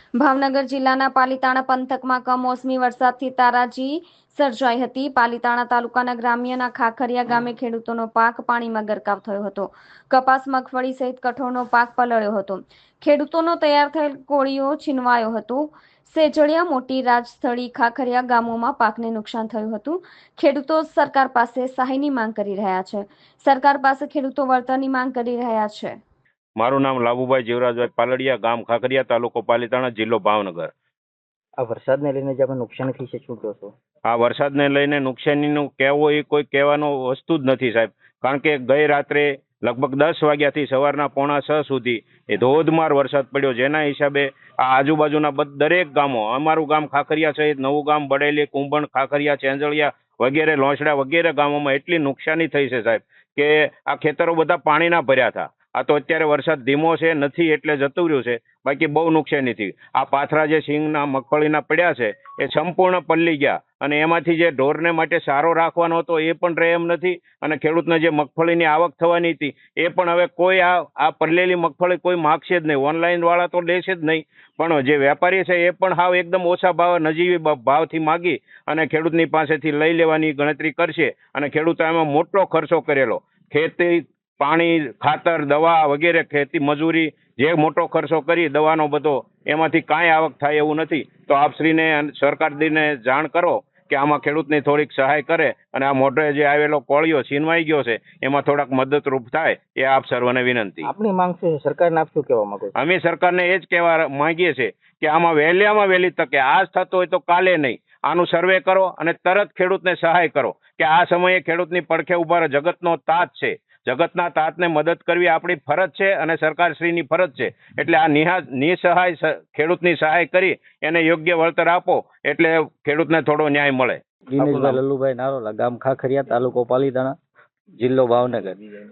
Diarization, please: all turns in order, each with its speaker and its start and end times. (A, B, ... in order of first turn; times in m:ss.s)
0:00.2-0:26.0 A
0:26.6-0:30.7 B
0:31.6-0:33.8 C
0:34.1-1:40.9 B
1:40.8-1:42.7 C
1:42.8-2:04.0 B
2:04.3-2:07.1 D
2:04.4-2:04.8 C
2:07.8-2:08.6 D